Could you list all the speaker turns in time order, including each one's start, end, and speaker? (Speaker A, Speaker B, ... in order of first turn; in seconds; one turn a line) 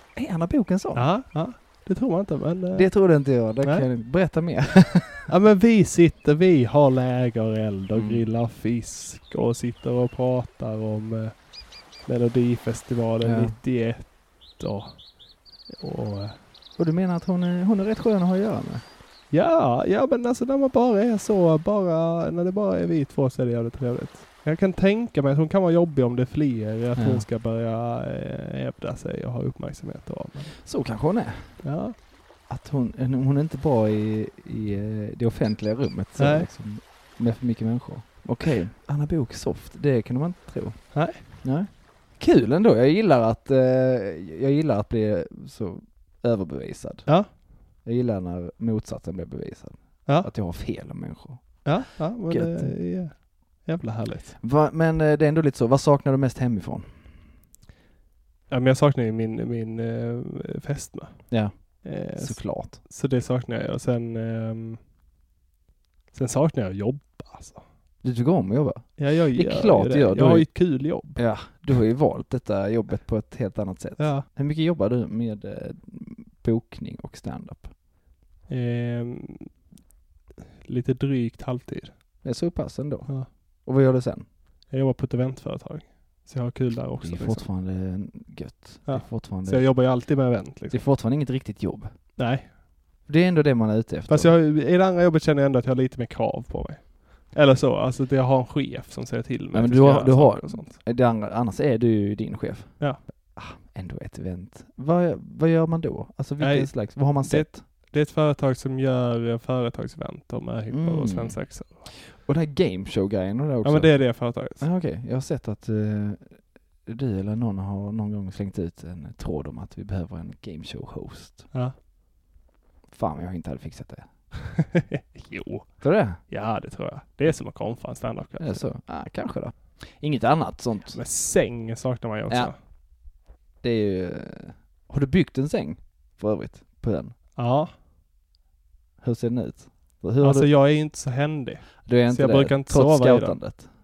Speaker A: 0.1-1.1
Speaker B: 0.9-3.9
Speaker A: 2.7-5.3
Speaker B: 5.3-16.4
Speaker A: 7.9-8.2
Speaker A: 13.2-13.6
Speaker A: 16.8-18.8
Speaker B: 19.3-30.6
Speaker A: 26.9-27.2
Speaker A: 30.6-31.7
Speaker B: 31.6-32.0
Speaker A: 32.4-53.2
Speaker B: 36.2-36.5
Speaker B: 40.9-41.3
Speaker B: 50.0-50.3
Speaker B: 51.6-54.4
Speaker A: 54.4-57.0
Speaker B: 58.5-64.8
Speaker A: 61.3-62.8
Speaker B: 66.1-67.6
Speaker A: 68.0-77.7
Speaker B: 69.0-71.2
Speaker B: 74.0-74.3
Speaker B: 78.5-79.7
Speaker B: 80.6-82.2
Speaker A: 82.2-84.3
Speaker B: 84.7-87.5
Speaker A: 87.0-92.2
Speaker B: 88.8-90.8
Speaker B: 92.2-92.5
Speaker A: 93.0-94.3
Speaker B: 94.1-100.8
Speaker A: 99.5-107.7
Speaker B: 106.4-111.9
Speaker A: 110.7-121.5
Speaker B: 113.6-114.6
Speaker A: 122.9-124.1
Speaker B: 124.6-128.7
Speaker A: 125.8-126.2
Speaker A: 128.4-131.0
Speaker B: 130.9-132.6
Speaker A: 132.3-132.7
Speaker A: 133.6-137.2
Speaker B: 137.3-137.7
Speaker A: 139.0-140.5
Speaker B: 140.2-143.6
Speaker A: 141.8-143.7